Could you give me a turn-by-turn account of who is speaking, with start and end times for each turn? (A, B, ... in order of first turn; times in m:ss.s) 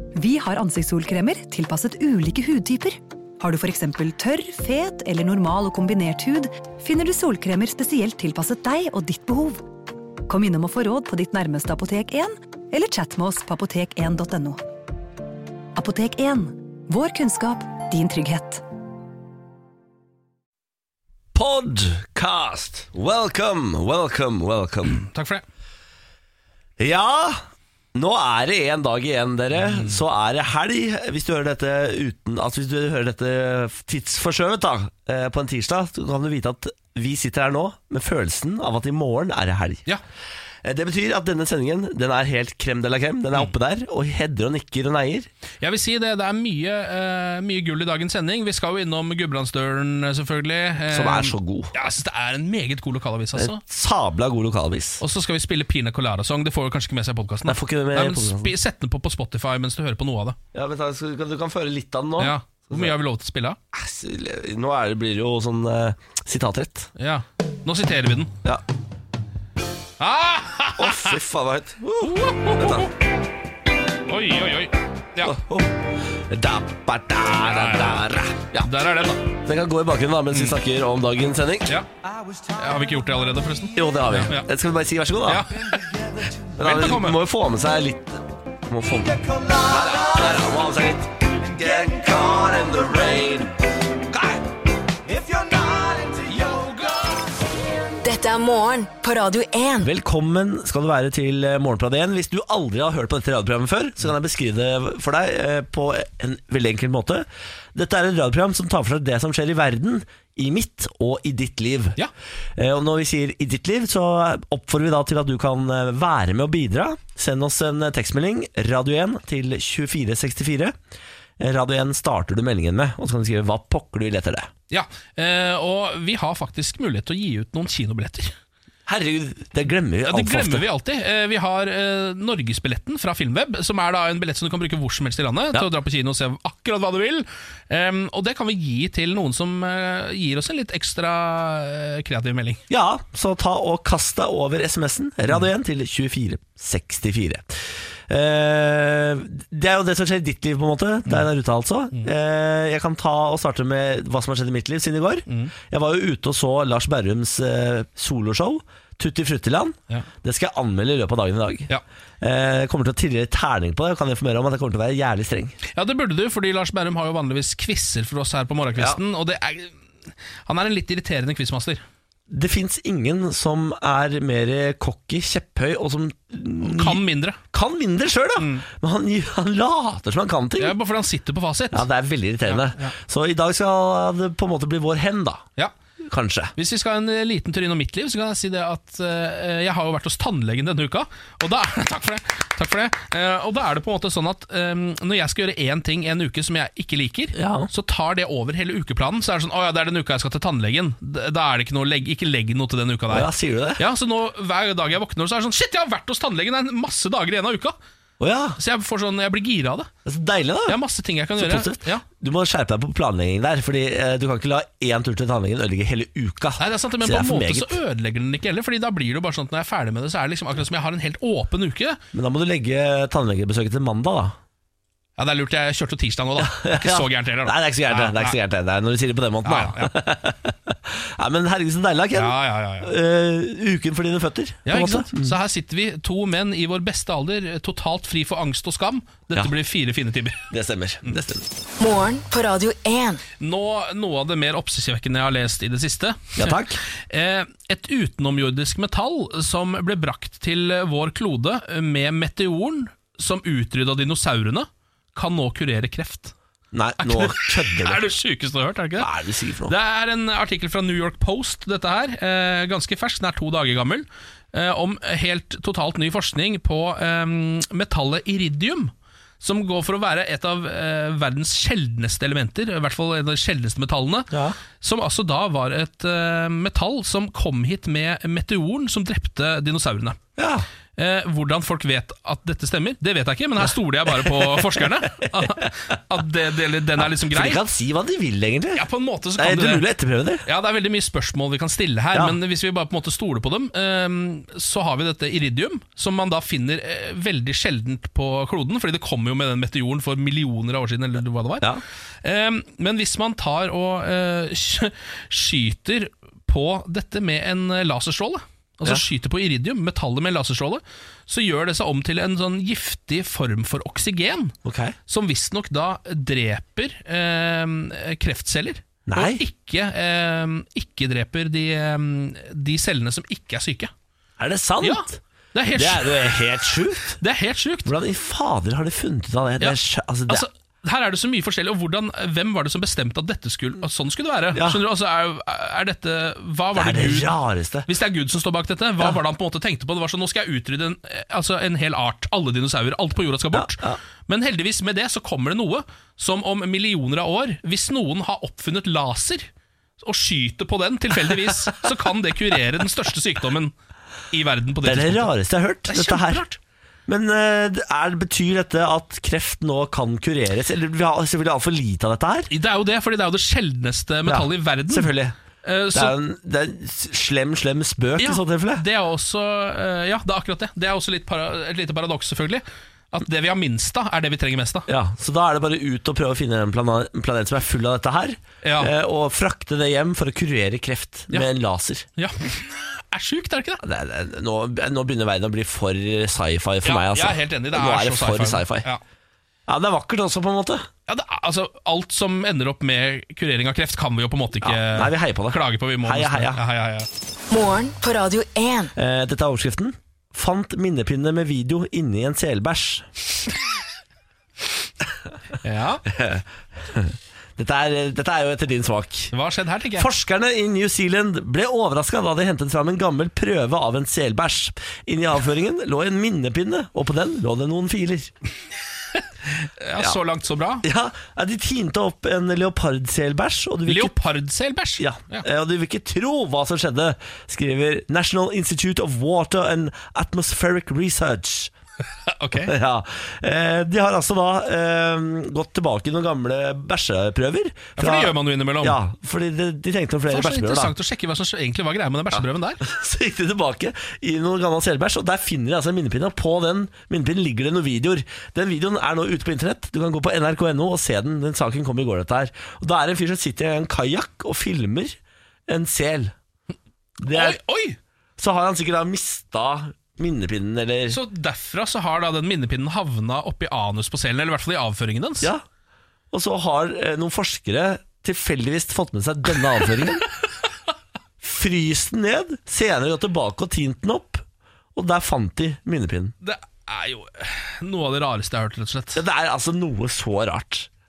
0:00.1-0:09.6 A
0:10.3-0:14.6 A
0:15.8-0:18.6 A
0:21.3-0:25.0 B
0:24.9-0:25.4 C
0:26.8-0:39.9 B
0:29.7-0:30.0 C
0:40.6-0:45.3 B
0:45.6-0:53.6 C
0:50.9-0:51.7 B
0:53.3-0:55.0 B
0:55.0-1:00.4 C
0:57.4-0:58.5 B
1:00.5-1:02.9 B
1:02.2-1:03.6 C
1:03.7-1:06.9 B
1:07.0-1:08.3 C
1:10.0-1:11.2 C
1:10.8-1:12.9 B
1:12.0-1:12.9 C
1:14.1-1:15.3 C
1:15.2-1:21.8 B
1:17.4-1:19.3 C
1:20.3-1:20.6 C
1:22.5-1:24.5 C
1:23.7-1:37.2 B
1:25.2-1:25.8 C
1:26.6-1:27.2 C
1:38.0-1:39.9 D
1:39.8-1:52.0 B
1:52.6-2:00.7 B
2:01.4-2:04.5 B
2:04.7-2:08.3 C
2:08.9-2:10.7 B
2:10.0-2:22.6 C
2:22.7-2:41.7 B
2:42.2-2:45.6 B
2:45.7-2:49.7 C
2:50.4-2:51.8 C
2:52.3-3:00.8 B
2:56.6-2:57.4 C
2:58.4-2:58.6 C
3:00.6-3:01.9 C
3:01.7-3:05.4 B
3:02.4-3:02.9 C
3:06.0-3:06.5 B
3:06.6-3:27.7 C
3:17.3-3:17.7 B
3:23.1-3:23.8 B
3:28.2-3:28.6 B
3:28.6-3:29.9 C
3:30.0-3:30.8 B
3:30.7-3:32.0 C
3:31.4-3:37.8 B
3:36.6-3:42.0 C
3:42.1-3:44.4 B
3:45.2-3:48.4 C
3:46.4-3:55.4 B
3:49.4-3:49.9 C
3:52.1-3:52.9 C
3:54.6-4:00.4 C
4:00.5-4:01.5 B
4:01.8-4:03.2 D
4:03.4-4:16.3 C
4:06.4-4:06.8 B
4:16.7-4:18.0 B
4:17.0-4:19.1 C
4:19.0-4:19.8 B
4:19.7-4:40.2 C
4:34.3-4:34.6 B
4:40.4-4:40.7 B
4:41.0-4:47.6 C
4:43.6-4:45.8 B
4:47.0-4:48.8 B
4:48.7-4:49.9 C
4:49.4-4:50.4 B
4:50.4-5:14.5 C
4:52.1-4:52.4 B
5:14.6-5:15.0 B
5:15.1-5:23.9 C
5:19.1-5:19.4 B
5:24.4-5:25.2 B
5:24.8-5:26.4 C
5:25.7-5:27.2 B
5:27.2-5:27.9 C
5:27.8-5:30.5 B
5:30.3-5:37.3 C
5:34.5-5:34.8 B
5:36.7-5:37.9 B
5:37.8-5:49.5 C
5:43.5-5:44.0 B
5:50.0-5:53.7 C
5:54.3-5:55.3 C
5:54.8-5:56.5 B
5:55.9-5:56.6 C
5:57.1-6:02.5 B
6:02.5-6:05.1 C
6:04.2-6:05.3 B
6:05.6-6:06.1 C
6:05.9-6:08.8 B
6:08.2-6:14.9 C
6:14.9-6:22.0 B
6:18.6-6:18.9 C
6:22.2-6:23.8 C
6:23.8-6:28.9 B
6:26.8-6:29.0 C
6:29.7-6:30.9 B
6:31.1-6:37.1 C
6:34.6-6:36.6 B
6:37.5-6:38.9 D
6:38.9-6:43.1 B
6:45.6-6:46.1 C
6:46.1-6:49.3 B
6:49.3-6:50.1 C
6:49.9-6:58.3 B
6:59.2-7:00.8 C
7:00.8-7:04.1 B
7:03.9-7:05.4 C
7:05.0-7:11.7 B
7:12.3-7:12.7 C
7:12.5-7:20.9 B
7:18.0-7:19.0 C
7:20.3-7:22.8 C
7:22.3-7:35.2 B
7:35.7-7:36.3 B
7:37.2-7:37.6 B
7:37.3-7:38.0 C
7:38.4-7:41.2 B
7:41.1-7:45.5 C
7:46.3-7:50.3 B
7:51.4-7:54.4 B
7:54.9-7:56.3 B
7:56.4-7:59.2 C
7:59.1-8:00.9 B